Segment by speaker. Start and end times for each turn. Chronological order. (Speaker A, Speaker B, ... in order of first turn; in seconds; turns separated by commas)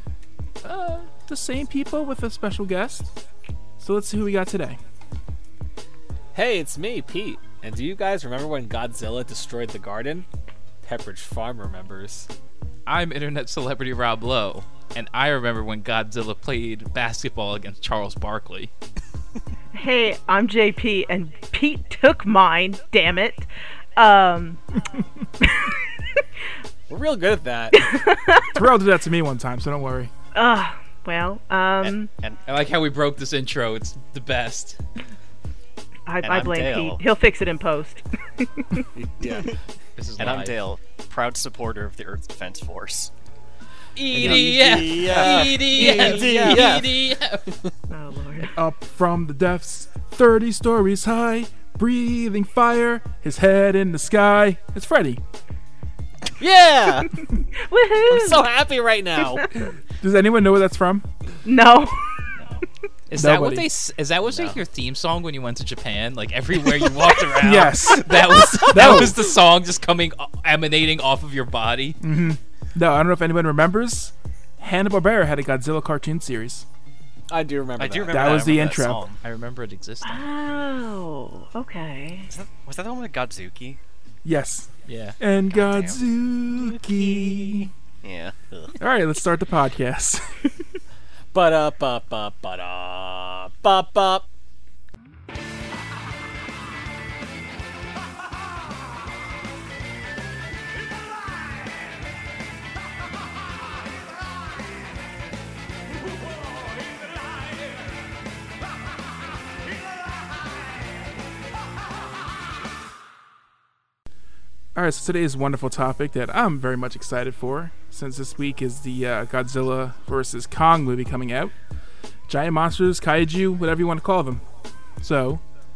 Speaker A: 0.6-3.1, Speaker A: 3.8-4.8, Speaker B: 6.3-10.3, Speaker B: 10.8-12.3, Speaker C: 12.9-18.7, Speaker D: 19.7-24.6, Speaker D: 25.4-25.8, Speaker B: 26.9-28.0, Speaker D: 27.7-28.6, Speaker A: 28.6-30.1, Speaker D: 30.3-32.1, Speaker E: 31.8-32.4, Speaker C: 32.5-34.8, Speaker D: 36.1-39.3, Speaker E: 36.2-37.0, Speaker B: 39.0-39.6, Speaker C: 40.0-40.6, Speaker E: 40.2-43.1, Speaker C: 44.0-47.5, Speaker B: 44.1-47.7, Speaker E: 44.1-44.5, Speaker E: 45.0-46.7, Speaker D: 47.9-48.6, Speaker A: 48.6-55.2, Speaker B: 56.4-57.2, Speaker D: 57.2-58.5, Speaker B: 58.1-59.5, Speaker D: 59.2-59.7, Speaker A: 59.8-61.1, Speaker D: 61.4-62.1, Speaker C: 63.1-72.0, Speaker A: 63.1-63.7, Speaker E: 64.2-64.6, Speaker A: 67.4-69.3, Speaker A: 72.0-76.7, Speaker B: 77.3-78.3, Speaker E: 77.8-79.2, Speaker A: 78.1-79.0, Speaker C: 79.2-80.3, Speaker D: 80.0-82.3, Speaker E: 82.3-83.8, Speaker A: 84.2-87.7, Speaker C: 84.9-85.2, Speaker E: 85.5-86.0, Speaker E: 86.5-88.8, Speaker A: 88.8-90.4, Speaker B: 91.3-94.3, Speaker A: 114.8-121.5, Speaker A: 122.3-124.5, Speaker A: 125.0-125.4